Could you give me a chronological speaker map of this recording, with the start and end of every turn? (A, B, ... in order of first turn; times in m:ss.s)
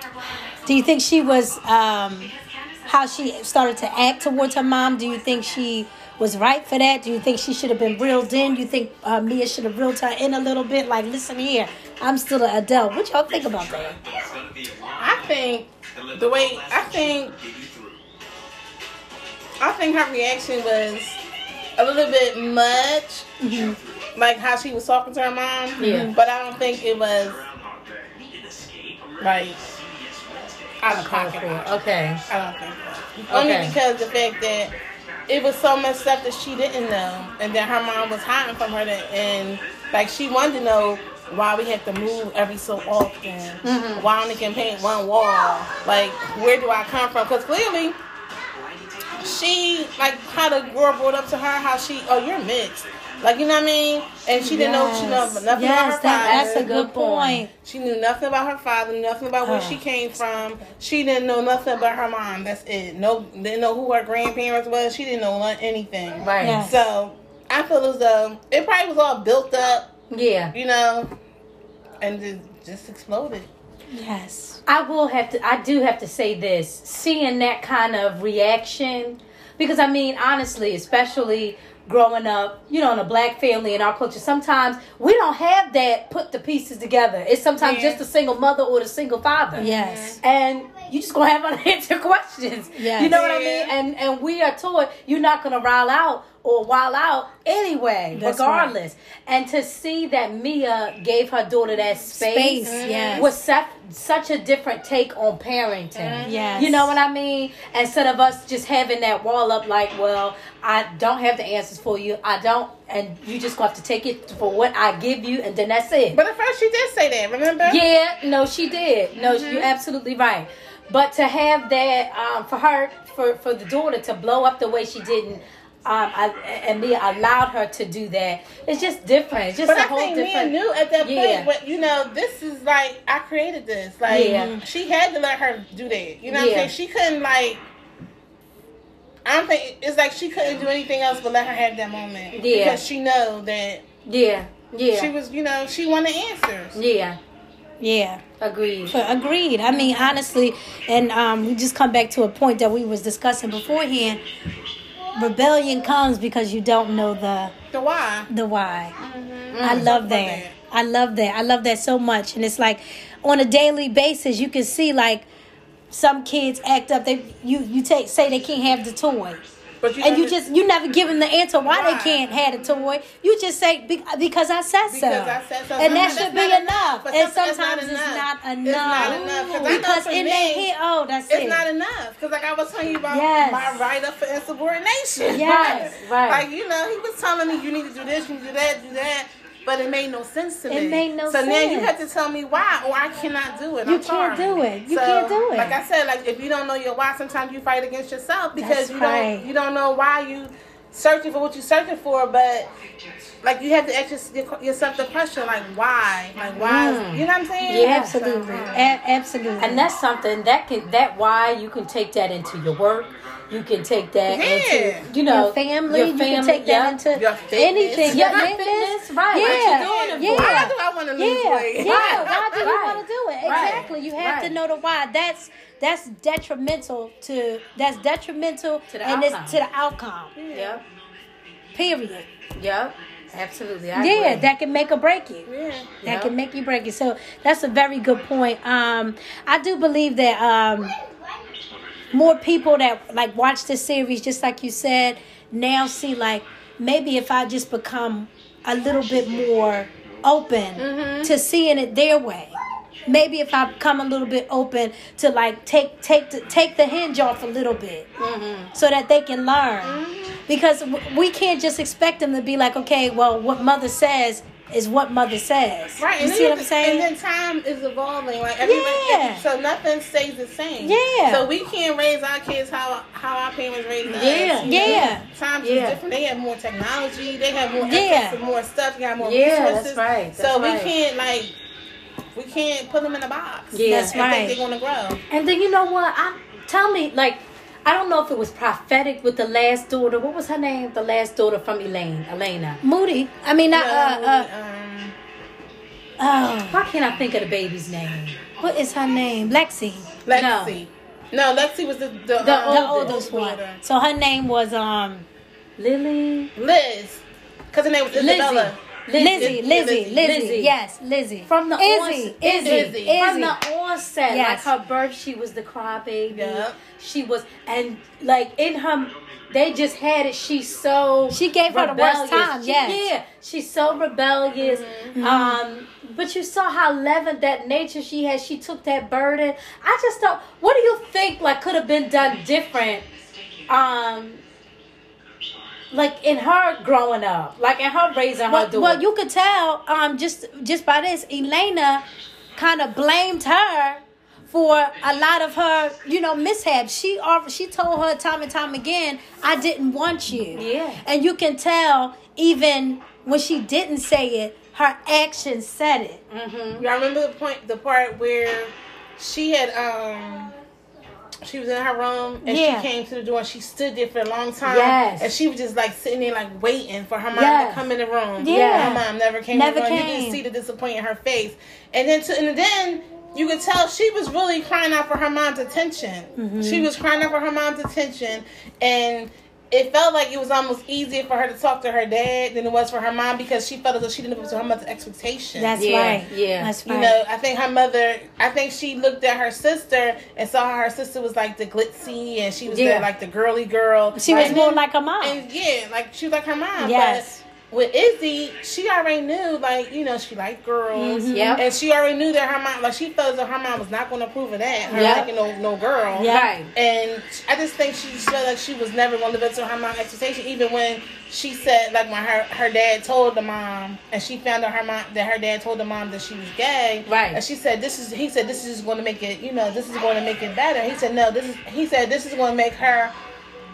0:00.6-0:02.3 A
0:02.9-0:14.0 A
0:14.9-0:17.4 B
0:19.6-0:21.2 B
0:21.8-0:23.3 B
0:23.4-0:23.8 A
0:24.2-0:27.4 B
0:25.8-0:26.1 C
0:25.8-0:26.2 A
0:29.2-0:29.6 B
0:30.8-0:31.6 B
0:30.9-0:32.2 C
0:32.3-0:34.7 B
0:33.3-0:33.8 C
0:35.3-0:48.0 B
0:43.6-0:44.1 C
0:49.2-0:56.8 B
0:54.4-0:57.5 A
0:56.1-0:57.4 C
0:57.6-1:09.9 B
0:59.4-0:59.8 A
1:06.2-1:06.6 C
1:06.4-1:06.8 A
1:10.1-1:10.5 C
1:10.5-1:11.1 B
1:12.0-1:13.5 B
1:13.9-1:14.6 A
1:14.7-1:29.7 C
1:27.6-1:28.0 B
1:29.6-1:30.2 A
1:29.6-1:30.2 B
1:30.2-1:56.2 C
1:32.7-1:33.2 A
1:33.1-1:33.7 B
1:38.1-1:38.7 A
1:42.1-1:43.3 A
1:42.6-1:43.3 B
1:45.9-1:46.8 B
1:46.2-1:46.9 A
1:56.1-1:57.8 B
1:57.6-2:11.5 C
1:59.2-1:59.7 B
2:09.6-2:17.6 B
2:14.1-2:14.5 C
2:14.1-2:14.6 A
2:16.3-2:16.7 C
2:19.2-2:23.8 B
2:22.3-2:22.8 C
2:24.1-2:25.1 C
2:24.9-2:26.8 B
2:26.8-2:27.2 C
2:27.8-2:28.2 A
2:28.4-2:29.0 C
2:28.9-2:34.2 A
2:35.2-2:37.5 A
2:37.7-2:38.3 B
2:38.3-2:39.0 A
2:39.0-2:40.5 B
2:39.5-2:39.9 C
2:39.6-2:45.3 A
2:45.9-2:49.4 A
2:49.8-2:50.4 B
2:50.0-3:01.6 A
2:51.6-2:52.9 B
2:54.9-3:00.7 B
2:55.9-2:56.3 C
2:58.9-2:59.8 C
3:01.3-3:22.7 B
3:03.1-3:03.8 A
3:05.3-3:05.9 A
3:05.3-3:06.5 C
3:10.7-3:11.9 A
3:13.8-3:15.8 A
3:18.6-3:19.5 A
3:23.4-3:28.9 B
3:26.6-3:28.1 C
3:27.7-3:29.9 A
3:29.6-3:37.0 C
3:34.3-3:35.1 B
3:35.2-3:50.3 A
3:37.1-3:38.6 B
3:38.0-3:40.7 C
3:39.4-3:42.8 B
3:41.8-3:44.6 C
3:43.4-3:43.9 B
3:48.9-3:49.6 C
3:50.4-3:50.8 B
3:50.5-3:50.8 C
3:51.8-3:52.3 A
3:52.6-3:54.5 C
3:54.0-3:55.5 A
3:55.5-3:55.9 B
3:56.0-3:56.3 C
3:56.0-4:01.0 A
4:02.1-4:18.1 A
4:10.8-4:11.3 B
4:18.2-4:18.7 C
4:18.7-4:27.1 A
4:19.8-4:20.4 B
4:26.0-4:41.6 B
4:28.6-4:29.4 A
4:30.8-4:31.5 A
4:34.0-4:36.0 C
4:34.6-4:35.2 A
4:37.8-4:38.4 A
4:39.2-4:40.9 C
4:42.4-4:45.2 B
4:43.7-4:44.2 C
4:43.9-4:44.6 A
4:45.3-4:52.8 C
4:52.8-4:54.5 A
4:53.7-4:55.2 B
4:56.2-4:56.8 A
4:56.7-4:58.4 C
4:58.6-5:00.1 A
5:00.3-5:03.8 B
5:00.3-5:00.8 C
5:02.4-5:03.2 C
5:02.7-5:05.3 A
5:05.8-5:06.5 C
5:06.6-5:10.2 B
5:08.1-5:10.7 C
5:09.1-5:13.6 A
5:11.5-5:33.0 C
5:12.6-5:13.2 B
5:14.3-5:14.7 A
5:16.3-5:16.8 B
5:21.3-5:23.1 A
5:24.6-5:25.2 B
5:25.2-5:25.6 A
5:33.7-5:34.4 C
5:35.9-5:39.0 C
5:38.5-5:42.0 A
5:42.6-5:56.2 A
5:50.5-5:51.0 C
5:56.3-5:56.8 C
5:56.8-6:00.5 B
6:01.4-6:25.7 B
6:02.4-6:02.9 A
6:04.6-6:05.3 C
6:07.3-6:07.8 C
6:07.4-6:07.8 A
6:08.4-6:10.4 A
6:08.4-6:09.0 C
6:16.4-6:16.9 A
6:25.6-6:27.2 A
6:25.8-6:26.8 C
6:26.8-7:03.2 B
6:32.7-6:33.1 C
6:34.1-6:35.4 A
6:34.3-6:34.6 C
6:36.8-6:37.4 A
6:40.9-6:41.6 A
6:41.3-6:41.6 C
6:44.9-6:45.3 A
6:44.9-6:45.3 C
6:46.2-6:46.5 A
6:46.3-6:46.7 C
6:57.1-6:57.4 C